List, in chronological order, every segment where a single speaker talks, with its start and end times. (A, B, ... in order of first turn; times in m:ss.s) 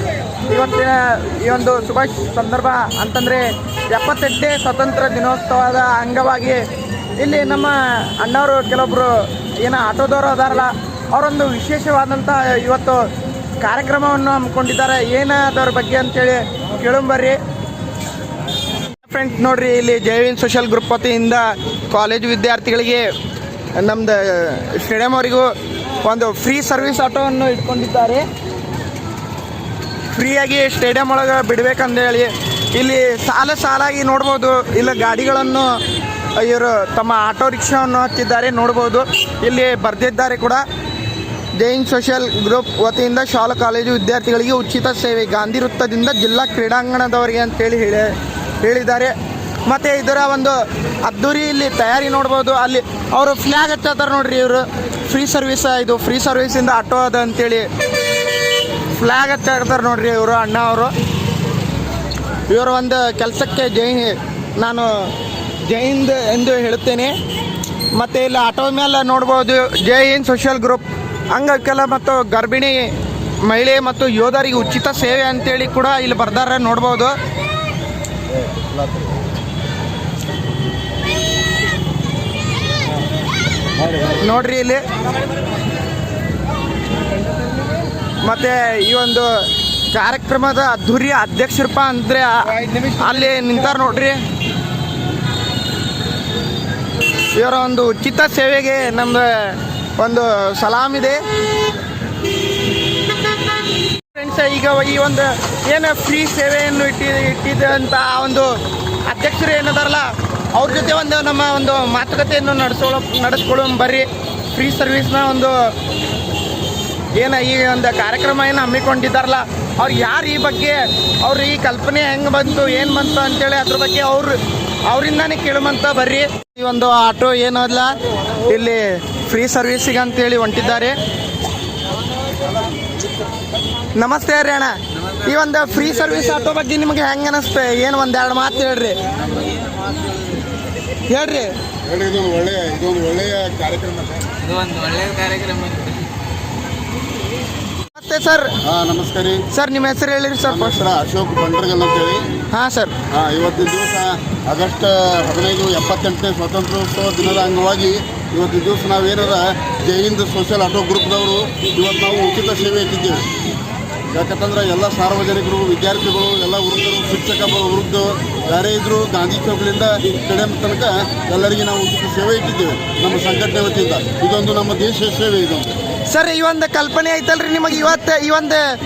0:00.5-0:06.6 A
0:07.2-0:13.0 A
0:13.6-0:17.4 A
0:19.0-0:23.1 A
0:23.8-0:25.5 A
0:26.0-0:28.2 A
0:30.1-0:35.7 A
0:36.4-0:40.6 A
0:41.6-0:49.1 A
0:49.7-0:57.7 A
0:58.9-1:00.9 A
1:02.5-1:05.2 A
1:05.7-1:07.1 A
1:08.0-1:12.9 A
1:13.4-1:17.2 A
1:24.1-1:24.8 A
1:28.2-1:29.3 A
1:29.9-1:34.2 A
1:37.4-1:41.2 A
1:44.1-1:48.5 A
1:49.1-1:55.6 A
1:57.2-2:04.4 A
2:04.9-2:11.0 A
2:14.0-2:19.0 A
2:19.2-2:20.2 B
2:21.1-2:21.5 A
2:21.9-2:24.2 C
2:24.4-2:26.0 B
2:27.9-2:28.6 A
2:28.7-2:29.4 C
2:29.5-2:30.8 A
2:30.5-2:32.2 C
2:32.5-2:32.9 A
2:33.2-2:43.2 C
2:44.2-2:55.7 C
2:56.1-2:58.6 A